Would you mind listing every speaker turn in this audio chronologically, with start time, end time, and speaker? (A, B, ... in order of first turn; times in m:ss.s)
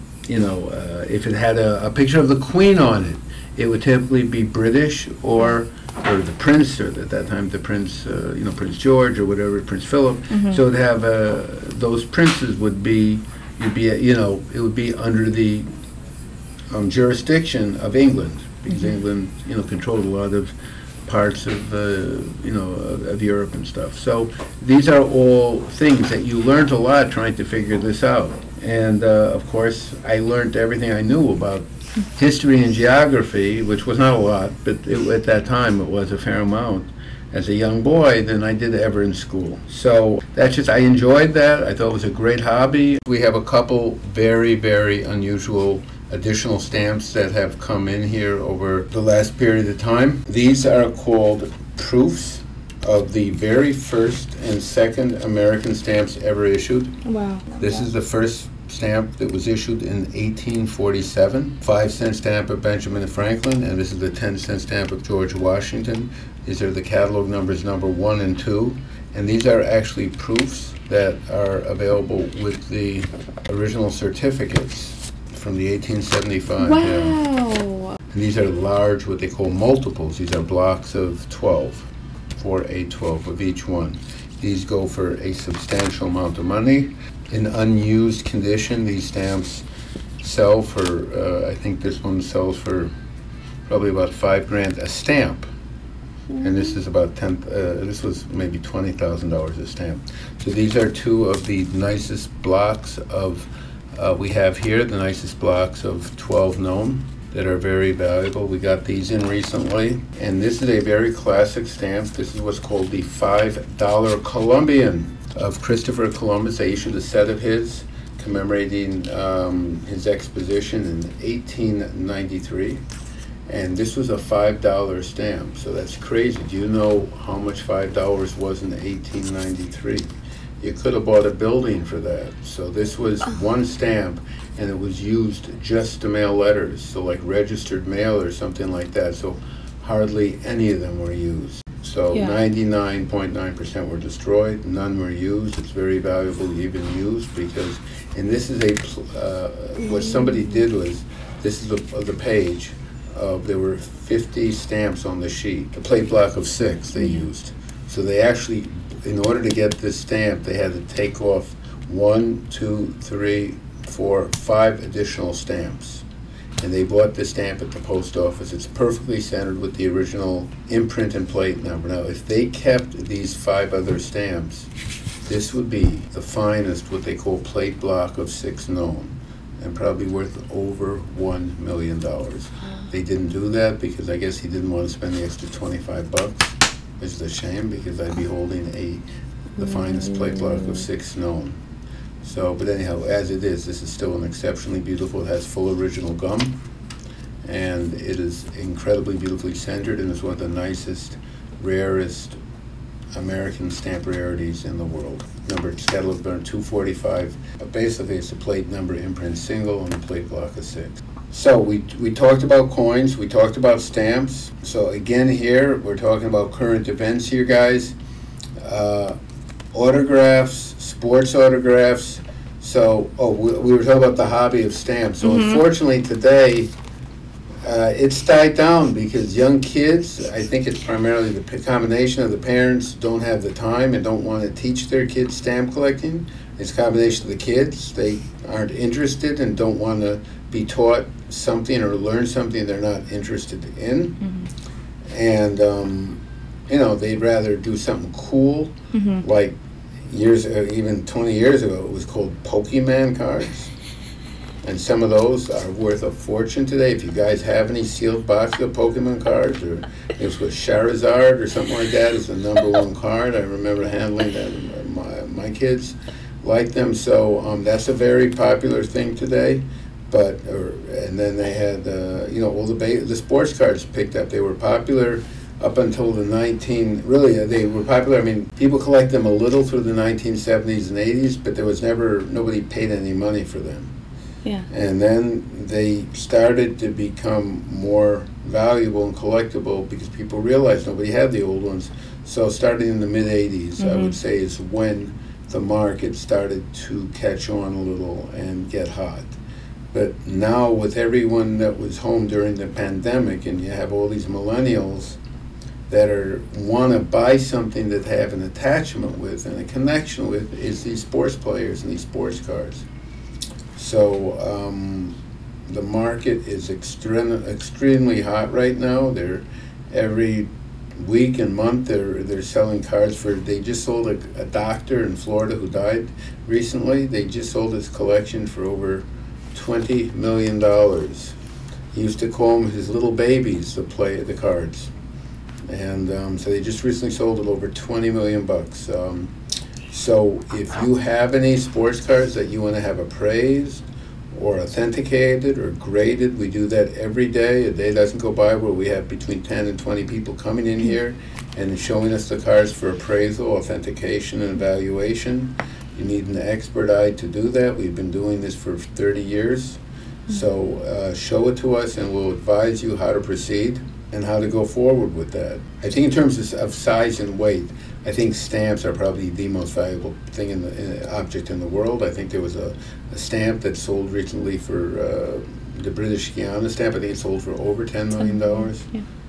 0:00.3-0:15.7 A
0:10.3-0:10.6 B
0:16.7-0:20.5 A
0:21.0-0:57.0 A
0:57.0-0:57.6 B
0:57.6-1:17.2 A
1:16.6-1:18.0 B
1:18.1-1:29.6 A
1:30.2-1:32.9 A
1:33.7-1:35.5 A
1:36.4-2:02.8 A
2:03.5-2:10.1 A
2:10.6-2:46.0 A
2:22.1-2:22.4 B
2:29.8-2:30.6 B
2:46.6-2:54.7 A
2:55.2-3:09.0 A
3:02.6-3:02.9 B
3:09.6-3:10.8 B
3:09.6-3:11.6 A
3:12.2-3:16.6 A
3:17.4-3:22.4 A
3:23.1-3:38.0 A
3:38.6-3:39.2 A
3:39.7-3:46.7 A
3:45.2-3:45.6 B
3:47.6-4:04.2 A
4:04.2-4:04.5 B
4:05.1-4:13.7 A
4:08.9-4:09.2 B
4:14.6-4:43.9 A
4:44.7-4:59.4 A
4:53.8-4:54.2 B
4:59.9-5:05.2 A
5:05.9-5:12.8 A
5:13.7-5:31.4 A
5:31.9-5:34.9 A
5:35.7-5:39.3 A
5:39.9-6:18.9 A
6:18.2-6:19.0 B